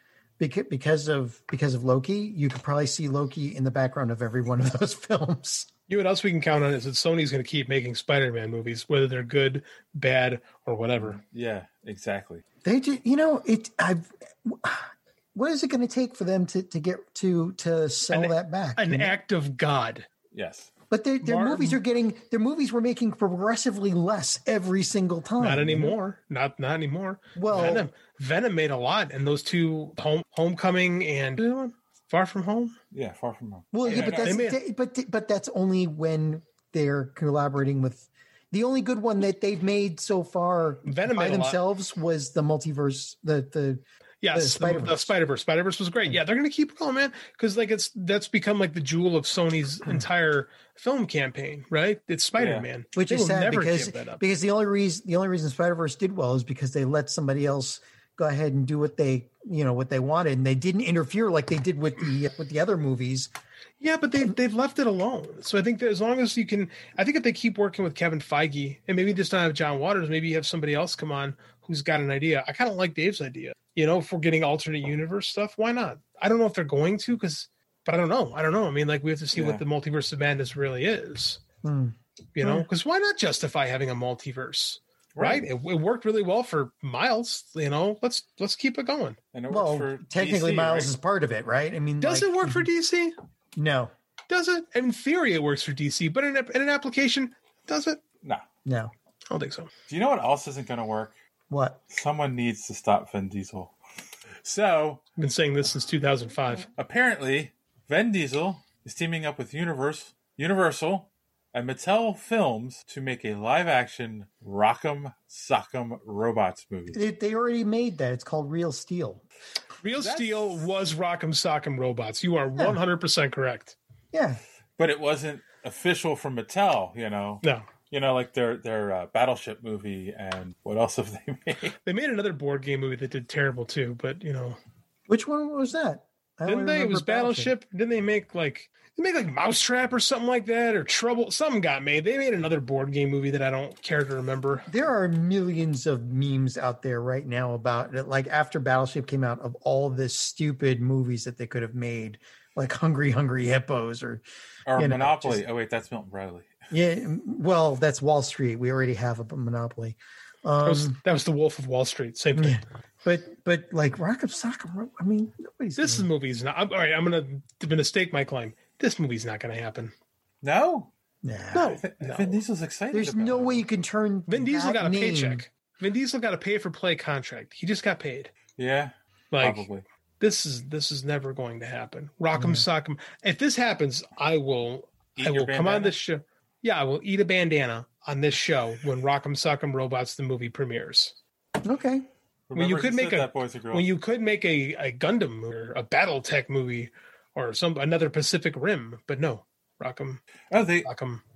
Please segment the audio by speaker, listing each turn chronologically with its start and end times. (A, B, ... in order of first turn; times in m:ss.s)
0:00.4-0:05.7 A
0:05.9-0:11.2 B
0:11.0-0:12.4 C
0:12.6-0:19.2 A
0:18.1-0:20.1 B
0:20.3-0:20.7 C
0:20.9-0:25.9 A
0:21.2-0:21.8 B
0:25.4-0:32.7 B
0:27.4-0:27.9 A
0:32.9-0:34.4 C
0:33.7-0:45.1 A
0:33.9-0:34.6 B
0:40.8-0:41.6 B
0:44.2-0:54.2 B
0:52.4-0:52.6 C
0:52.9-1:03.3 A
1:03.8-1:21.4 B
1:19.3-1:19.6 C
1:21.6-1:22.6 A
1:22.4-1:29.2 B
1:25.1-1:25.5 C
1:29.3-1:30.9 C
1:29.5-1:32.7 A
1:32.0-1:33.1 B
1:33.6-1:33.9 A
1:34.3-1:38.0 B
1:38.6-1:38.9 A
1:39.3-1:39.7 B
1:39.9-1:41.2 C
1:41.5-1:41.8 A
1:41.9-1:43.7 C
1:44.4-1:45.0 C
1:45.2-1:46.7 B
1:46.8-1:57.0 C
1:56.9-1:59.2 A
1:59.8-2:03.8 B
2:00.0-2:00.6 C
2:04.1-2:04.4 A
2:04.8-2:11.8 C
2:07.4-2:07.7 B
2:11.8-2:14.6 B
2:15.1-2:17.5 A
2:16.4-2:24.6 B
2:24.7-2:34.2 A
2:34.7-2:36.6 C
2:34.8-2:35.4 A
2:36.7-2:41.0 A
2:40.6-2:42.6 B
2:42.3-2:46.1 A
2:45.8-2:49.9 B
2:50.4-2:50.9 C
2:51.2-2:51.8 A
2:51.5-2:53.6 C
2:52.0-2:52.4 B
2:52.9-2:55.4 A
2:54.3-2:58.3 B
2:58.6-2:59.8 C
2:59.3-2:59.7 B
3:00.2-3:11.1 B
3:02.3-3:02.6 A
3:05.1-3:05.9 C
3:11.6-3:12.1 A
3:12.5-3:13.9 C
3:12.5-3:20.2 B
3:20.5-3:20.9 C
3:20.8-3:21.2 B